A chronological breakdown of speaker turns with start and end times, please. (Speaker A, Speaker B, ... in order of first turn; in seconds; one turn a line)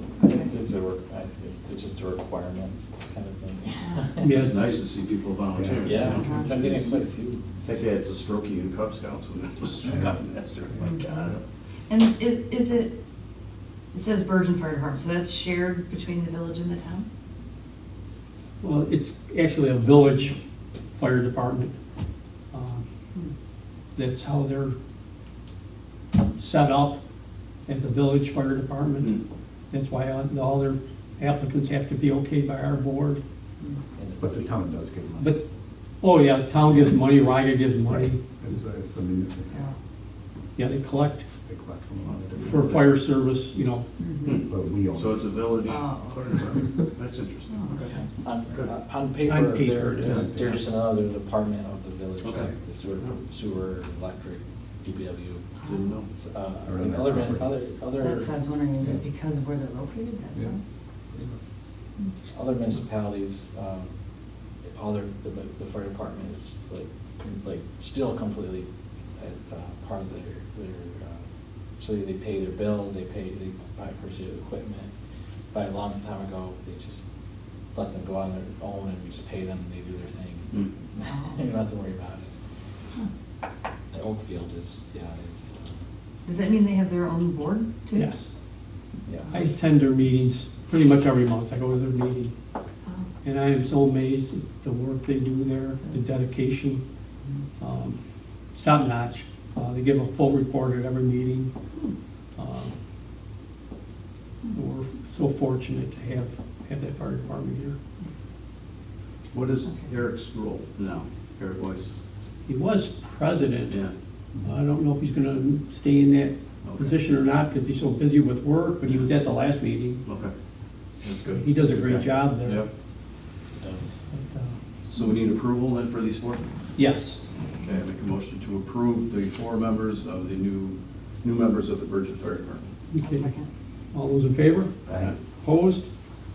Speaker A: 0.2-0.5
Speaker B: 0.2-4.4
Speaker A: 3.8-4.1
Speaker C: 4.2-4.6
Speaker D: 4.3-6.7
Speaker E: 5.5-6.1
Speaker B: 5.8-7.4
Speaker A: 6.1-6.9
Speaker D: 7.6-11.4
Speaker E: 9.8-10.2
Speaker E: 10.7-11.0
Speaker A: 10.8-11.3
Speaker A: 11.9-12.9
Speaker A: 13.9-17.1
Speaker C: 18.6-20.4
Speaker C: 20.9-21.7
Speaker C: 22.5-22.8
Speaker C: 23.9-24.7
Speaker C: 26.4-27.0
Speaker C: 27.6-29.1
Speaker C: 29.7-33.2
Speaker B: 34.0-34.5
Speaker E: 34.2-35.3
Speaker C: 36.0-38.2
Speaker E: 37.9-39.7
Speaker C: 40.6-41.3
Speaker E: 41.4-42.7
Speaker D: 42.3-42.8
Speaker C: 42.4-43.9
Speaker A: 44.0-44.4
Speaker D: 44.2-47.7
Speaker E: 44.3-45.7
Speaker A: 45.6-46.7
Speaker A: 47.5-48.1
Speaker B: 47.9-55.4
Speaker C: 49.2-50.3
Speaker E: 50.1-50.4
Speaker D: 52.2-52.5
Speaker A: 55.6-56.0
Speaker D: 55.6-56.1
Speaker B: 56.1-58.3
Speaker E: 56.6-57.5
Speaker A: 58.0-60.6
Speaker B: 62.3-63.9
Speaker B: 64.7-68.7
Speaker B: 69.2-71.2
Speaker B: 71.8-74.9
Speaker B: 75.5-77.0
Speaker B: 77.7-82.3
Speaker A: 81.0-81.4
Speaker B: 83.9-85.7
Speaker A: 86.2-88.1
Speaker C: 87.9-88.2
Speaker B: 89.0-89.3
Speaker C: 89.3-92.3
Speaker C: 93.2-96.8
Speaker C: 97.6-98.0
Speaker C: 98.5-101.5
Speaker C: 102.4-102.7
Speaker C: 104.5-107.8
Speaker A: 108.0-108.3
Speaker D: 109.3-111.9
Speaker A: 109.7-109.9
Speaker C: 112.5-113.8
Speaker C: 114.4-120.0
Speaker D: 116.6-117.0
Speaker D: 120.0-120.3
Speaker D: 121.0-122.7
Speaker C: 121.3-122.7
Speaker B: 123.5-124.0
Speaker C: 124.1-124.5
Speaker D: 124.9-126.4
Speaker C: 126.8-127.2
Speaker D: 127.5-132.6
Speaker C: 132.9-133.3
Speaker A: 133.0-133.5
Speaker C: 133.9-135.9
Speaker E: 134.8-135.1
Speaker D: 134.9-135.2